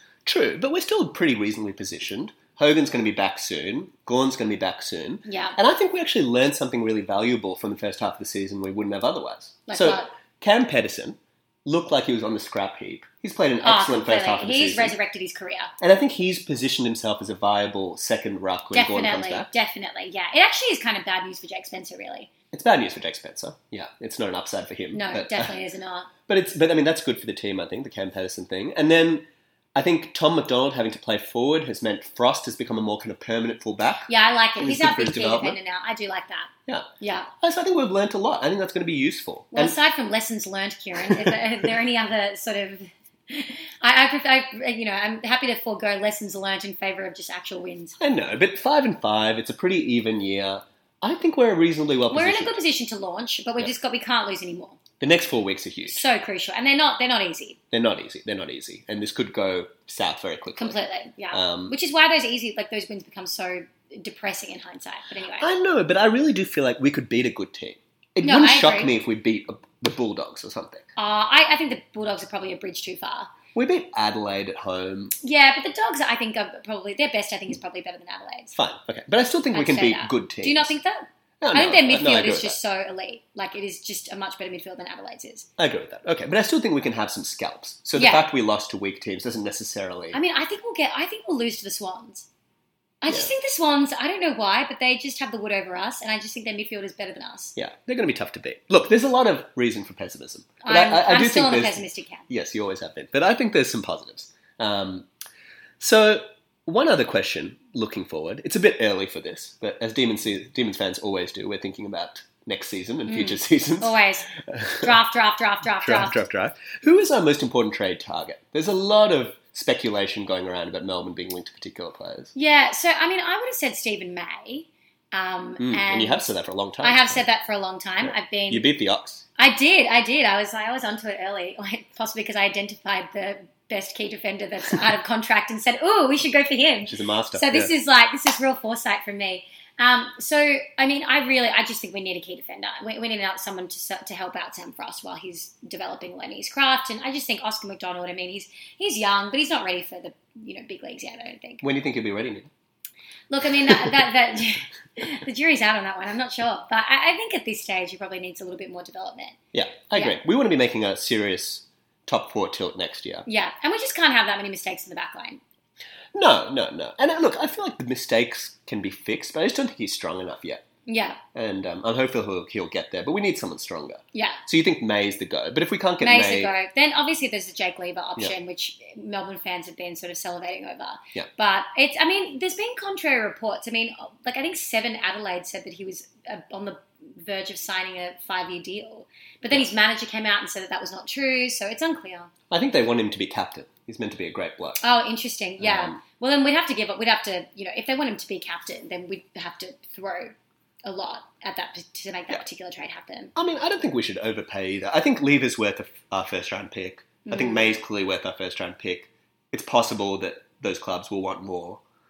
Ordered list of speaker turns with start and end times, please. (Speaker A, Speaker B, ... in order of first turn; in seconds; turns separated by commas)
Speaker A: 0.2-14.9, Speaker B: 5.2-5.6, Speaker B: 9.7-10.1, Speaker B: 13.6-15.7, Speaker A: 15.8-19.5, Speaker B: 18.7-22.3, Speaker A: 22.5-25.5, Speaker B: 24.9-26.1, Speaker A: 26.3-35.6, Speaker B: 34.1-37.3, Speaker A: 37.4-39.8, Speaker B: 39.5-48.0, Speaker A: 41.0-41.4, Speaker A: 48.0-52.6, Speaker B: 52.1-54.8, Speaker A: 55.0-56.0, Speaker B: 55.9-57.6, Speaker A: 57.7-60.8, Speaker B: 60.6-65.5, Speaker A: 61.3-61.8, Speaker A: 65.4-70.9, Speaker B: 68.2-68.9, Speaker B: 71.0-73.3, Speaker A: 73.5-75.2, Speaker B: 75.2-78.5, Speaker A: 78.5-80.7, Speaker B: 79.5-85.5, Speaker A: 81.4-82.6, Speaker A: 85.6-90.2, Speaker B: 88.0-88.2, Speaker B: 90.1-92.3, Speaker B: 93.0-97.5, Speaker A: 97.6-105.1, Speaker B: 100.6-102.3, Speaker A: 105.8-115.0, Speaker B: 113.1-114.3, Speaker B: 114.8-116.2, Speaker A: 115.8-122.3, Speaker B: 122.3-126.3, Speaker A: 125.6-127.2, Speaker B: 126.8-128.7, Speaker A: 128.0-129.2, Speaker B: 129.4-151.6, Speaker A: 136.9-137.7, Speaker A: 151.6-152.5, Speaker B: 153.3-159.4, Speaker A: 159.5-163.3, Speaker B: 163.3-165.4, Speaker A: 166.1-170.6, Speaker B: 170.9-171.2, Speaker A: 171.3-176.5, Speaker B: 174.1-174.4, Speaker B: 176.0-192.3, Speaker A: 192.5-194.8, Speaker B: 194.8-203.3, Speaker A: 195.6-196.0, Speaker A: 203.4-211.8, Speaker B: 207.2-207.8